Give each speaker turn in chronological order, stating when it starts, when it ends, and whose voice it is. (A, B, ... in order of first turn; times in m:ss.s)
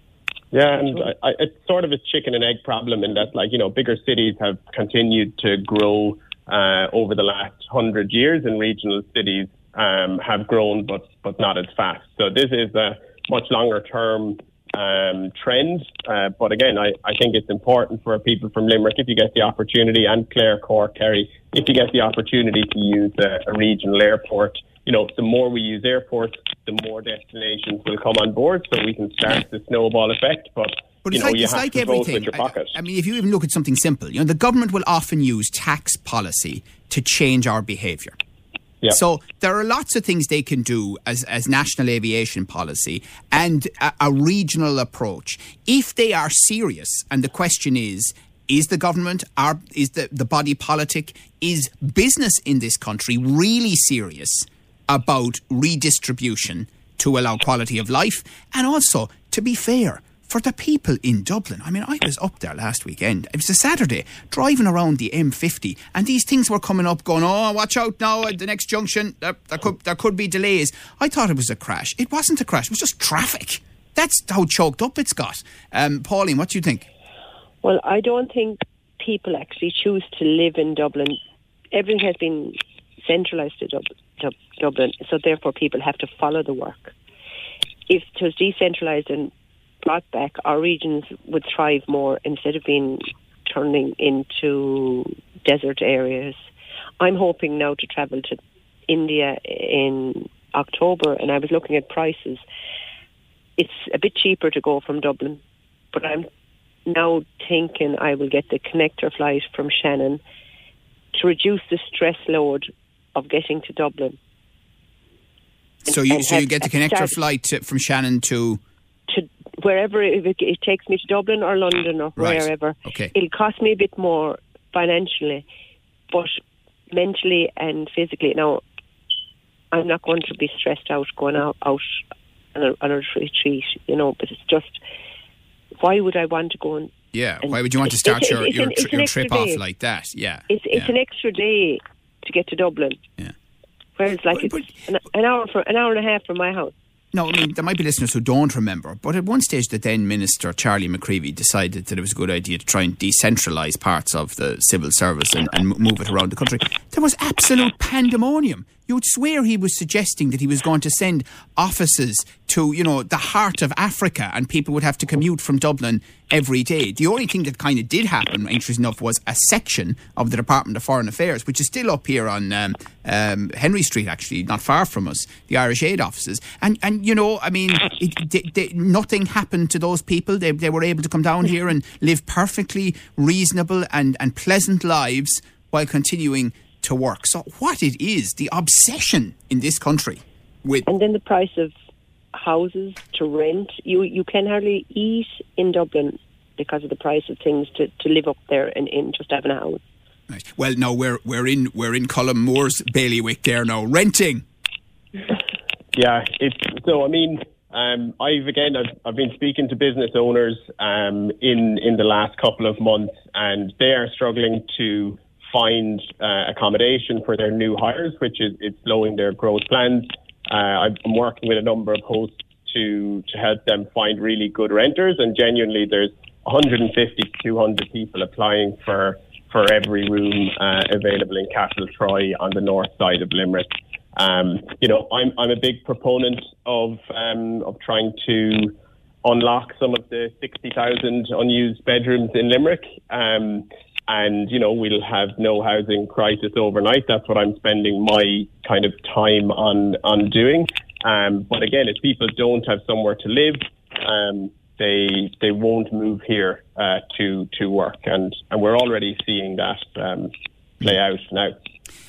0:00.5-0:32.7 A
0:31.0-0:38.2 B
0:38.9-1:16.9 B
1:17.6-1:21.2 C
1:21.7-1:26.9 C
1:27.9-1:29.3 C
1:29.8-1:36.4 C
1:37.0-1:42.4 C
1:43.6-1:45.4 C
1:45.9-1:46.3 C
1:46.8-1:50.2 C
1:51.1-1:54.2 C
1:55.9-1:58.6 B
1:55.9-1:57.1 C
1:59.1-2:05.4 C
2:02.2-2:03.1 B
2:06.1-2:06.4 C
2:06.9-2:08.6 C
2:09.7-2:12.0 C
2:12.5-2:14.8 C
2:15.8-2:16.9 C
2:17.1-2:20.9 B
2:17.4-2:19.6 C
2:20.5-2:23.0 C
2:24.0-2:26.7 C
2:24.3-2:24.8 B
2:27.1-3:10.8 B
3:10.9-3:11.7 C
3:12.3-3:19.8 C
3:20.3-3:24.4 B
3:25.9-4:21.5 A